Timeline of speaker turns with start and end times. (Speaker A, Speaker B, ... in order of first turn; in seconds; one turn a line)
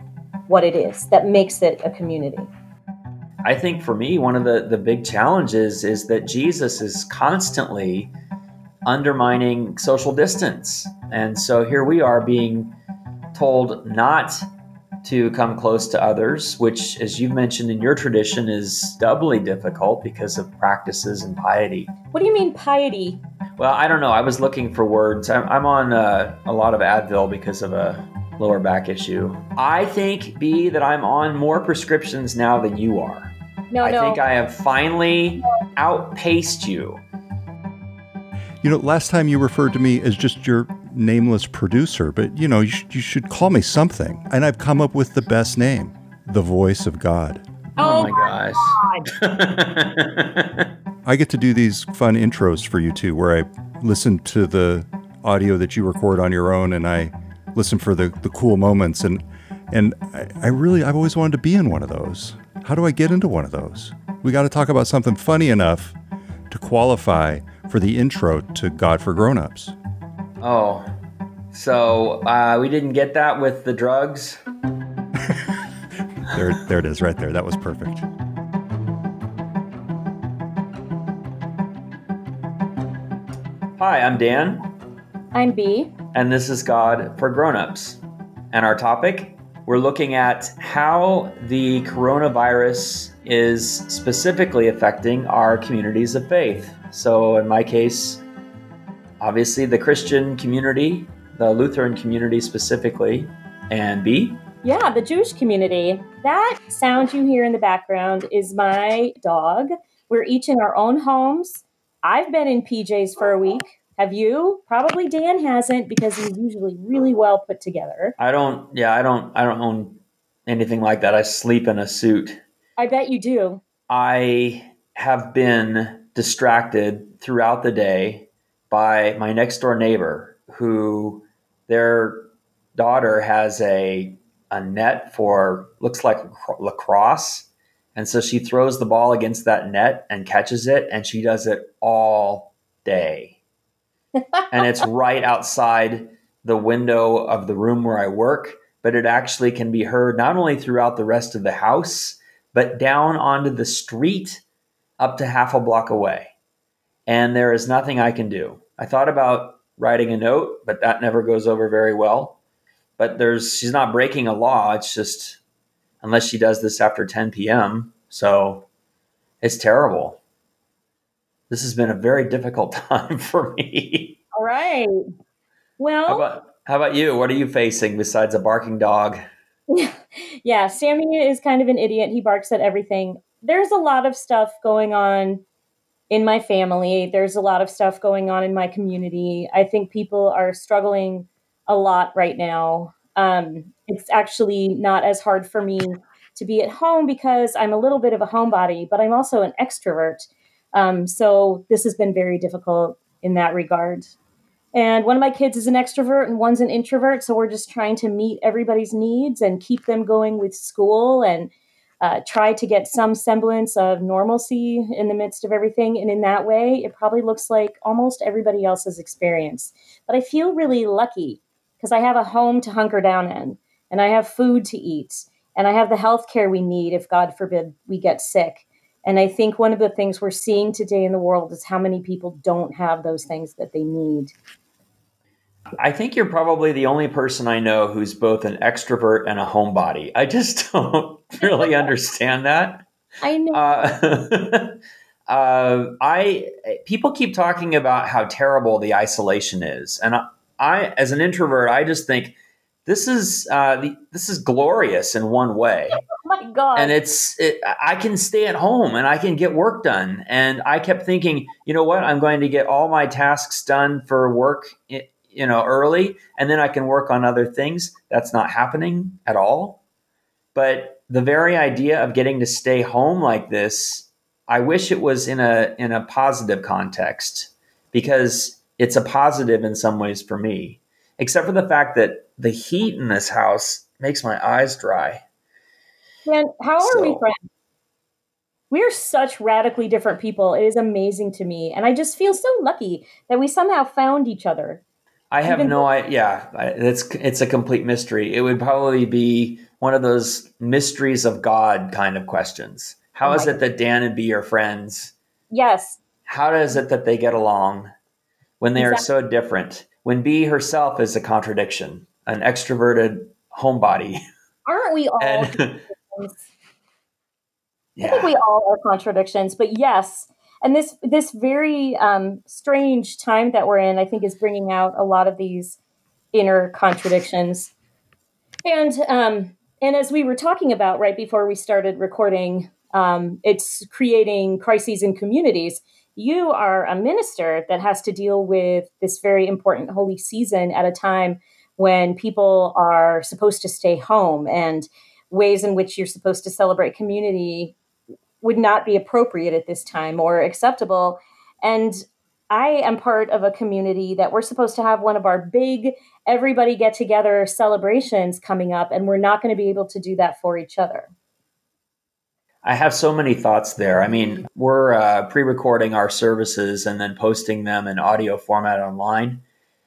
Speaker A: 0.5-2.5
Speaker B: 3.4-8.1
Speaker B: 8.8-12.8
Speaker B: 13.3-14.5
Speaker B: 15.0-21.9
Speaker A: 22.1-23.2
Speaker B: 23.6-37.0
Speaker A: 33.7-34.2
Speaker C: 38.6-47.4
Speaker B: 47.8-50.7
Speaker A: 47.8-49.1
Speaker C: 51.0-65.9
Speaker C: 66.5-69.7
Speaker B: 70.4-70.9
Speaker B: 71.5-74.4
Speaker C: 76.2-78.0
Speaker B: 83.8-84.7
Speaker A: 85.3-85.9
Speaker B: 86.1-88.0
Speaker B: 88.5-98.2
Speaker B: 99.2-104.4
Speaker A: 104.6-118.1
Speaker B: 118.2-122.4
Speaker A: 122.8-123.6
Speaker B: 123.9-143.4
Speaker B: 144.5-154.4
Speaker B: 155.0-156.3
Speaker B: 157.1-162.4
Speaker B: 163.0-165.4
Speaker B: 166.0-168.7
Speaker B: 169.4-170.2
Speaker B: 171.5-174.2
Speaker A: 174.3-174.9
Speaker A: 175.8-176.3
Speaker B: 176.1-179.2
Speaker A: 179.7-185.4
Speaker A: 186.1-204.2
Speaker A: 204.7-234.3
Speaker B: 235.8-242.8
Speaker A: 243.2-243.9
Speaker B: 243.5-256.0
Speaker A: 256.2-256.9
Speaker B: 256.8-269.8
Speaker B: 270.5-285.2
Speaker A: 286.2-287.4
Speaker B: 286.8-287.2
Speaker A: 288.7-294.8
Speaker B: 295.3-305.1
Speaker A: 295.4-295.8
Speaker A: 303.2-303.6
Speaker A: 305.5-306.0
Speaker B: 306.2-307.9
Speaker B: 308.6-314.2
Speaker A: 308.8-309.1
Speaker A: 314.6-316.4
Speaker B: 315.2-315.8
Speaker B: 317.9-318.3
Speaker A: 318.0-325.8
Speaker A: 326.3-327.7
Speaker A: 328.6-347.8
Speaker A: 348.4-361.1
Speaker B: 362.6-369.4